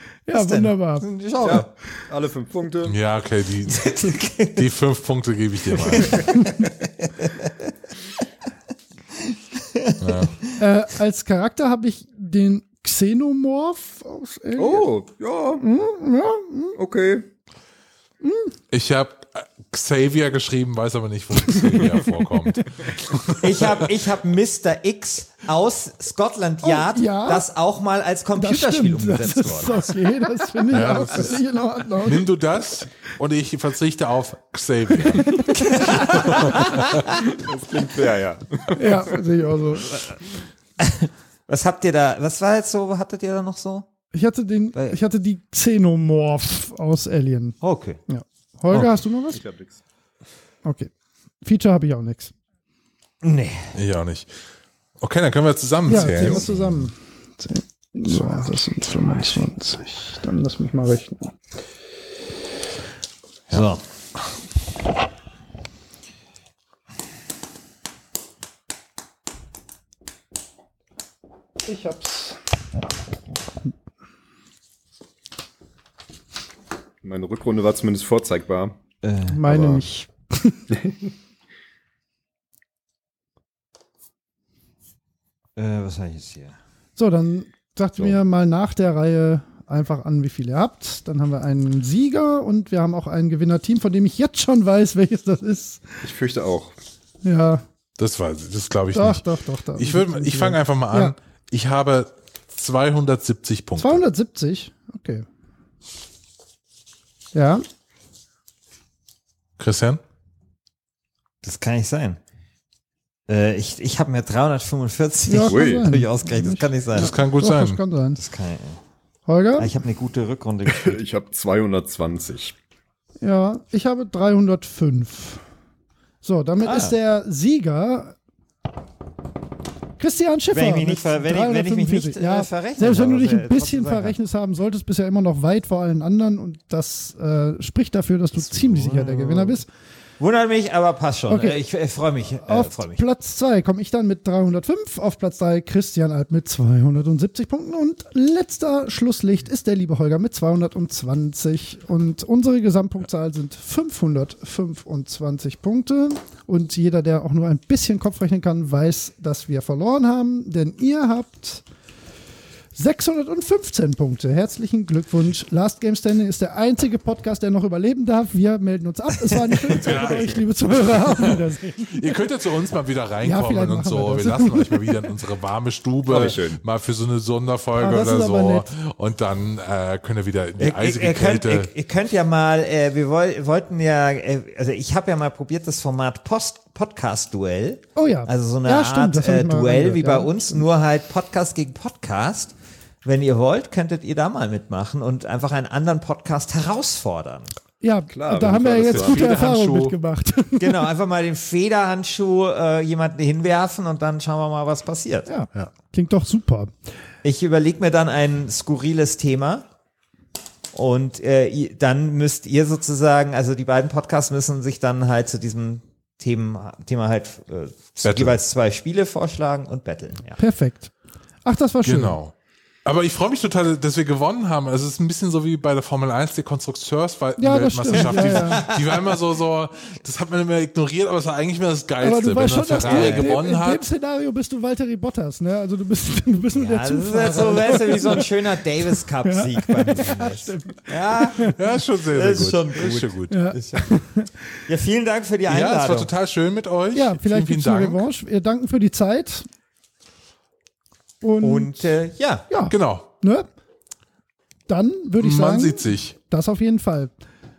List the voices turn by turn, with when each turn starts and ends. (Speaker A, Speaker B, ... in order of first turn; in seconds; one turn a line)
Speaker A: 0.3-1.1
Speaker B: 0.3-1.7
Speaker C: 1.4-3.0
Speaker D: 2.9-6.3
Speaker B: 3.7-4.7
Speaker B: 6.0-6.3
Speaker B: 7.0-7.7
Speaker B: 9.3-10.3
Speaker D: 10.0-10.3
Speaker A: 10.6-14.9
Speaker C: 14.6-15.7
Speaker A: 15.6-16.8
Speaker C: 16.8-17.3
Speaker A: 18.2-18.5
Speaker D: 18.7-23.8
Speaker A: 21.4-22.1
Speaker B: 23.4-29.9
Speaker A: 26.6-27.5
Speaker A: 28.4-32.3
Speaker D: 30.7-31.4
Speaker D: 32.0-35.5
Speaker B: 35.5-37.2
Speaker D: 36.3-36.6
Speaker C: 37.1-39.2
Speaker A: 38.7-40.0
Speaker B: 40.8-43.9
Speaker A: 44.1-49.4
Speaker B: 47.6-48.0
Speaker C: 49.3-49.8
Speaker A: 50.6-50.9
Speaker A: 51.4-52.3
Speaker B: 53.2-53.7
Speaker D: 53.8-54.3
Speaker D: 55.0-56.4
Speaker A: 55.9-61.3
Speaker C: 56.0-56.7
Speaker B: 63.5-63.8
Speaker A: 71.7-72.4
Speaker C: 77.0-78.8
Speaker B: 79.0-79.4
Speaker A: 79.3-80.6
Speaker C: 79.4-79.8
Speaker C: 80.7-81.1
Speaker B: 85.6-86.6
Speaker A: 87.0-96.0
Speaker C: 96.0-96.8
Speaker A: 97.2-97.7
Speaker D: 98.0-104.0
Speaker A: 98.9-101.2
Speaker A: 103.8-105.3
Speaker A: 107.3-107.7
Speaker D: 109.6-110.0
Speaker B: 111.4-112.2
Speaker B: 113.3-117.1
Speaker A: 115.3-118.2
Speaker C: 115.5-115.9
Speaker D: 117.0-117.8
Speaker B: 118.2-118.8
Speaker A: 119.3-119.7
Speaker B: 119.6-121.0
Speaker C: 120.7-122.6
Speaker A: 123.2-125.4
Speaker A: 126.2-128.2
Speaker B: 126.6-127.0
Speaker A: 130.0-139.7
Speaker B: 130.5-134.2
Speaker B: 138.3-139.6
Speaker B: 140.2-143.0
Speaker A: 141.3-141.6
Speaker A: 142.4-161.7
Speaker A: 162.8-172.2
Speaker D: 169.7-181.7
Speaker A: 173.2-175.1
Speaker C: 176.1-176.6
Speaker A: 177.8-178.7
Speaker B: 180.6-197.5
Speaker A: 188.0-190.7
Speaker A: 197.8-200.9
Speaker C: 198.1-199.4
Speaker D: 198.8-200.0
Speaker B: 200.6-205.3
Speaker A: 205.3-206.7
Speaker B: 207.2-209.7
Speaker B: 210.7-220.4
Speaker D: 218.0-218.4
Speaker A: 220.4-220.9
Speaker A: 221.4-222.2
Speaker D: 221.8-222.3
Speaker D: 222.8-233.9
Speaker A: 227.4-228.7
Speaker B: 227.9-228.8
Speaker A: 232.0-238.3
Speaker B: 232.7-233.4
Speaker B: 236.5-241.5
Speaker A: 239.2-241.6
Speaker D: 241.4-243.5
Speaker B: 242.1-244.0
Speaker A: 243.3-244.3
Speaker B: 244.7-246.1
Speaker D: 245.5-248.1
Speaker A: 246.9-249.5
Speaker A: 251.2-251.9
Speaker B: 251.4-252.5
Speaker A: 252.5-253.5
Speaker D: 252.7-253.1
Speaker A: 254.7-257.1
Speaker D: 255.2-256.2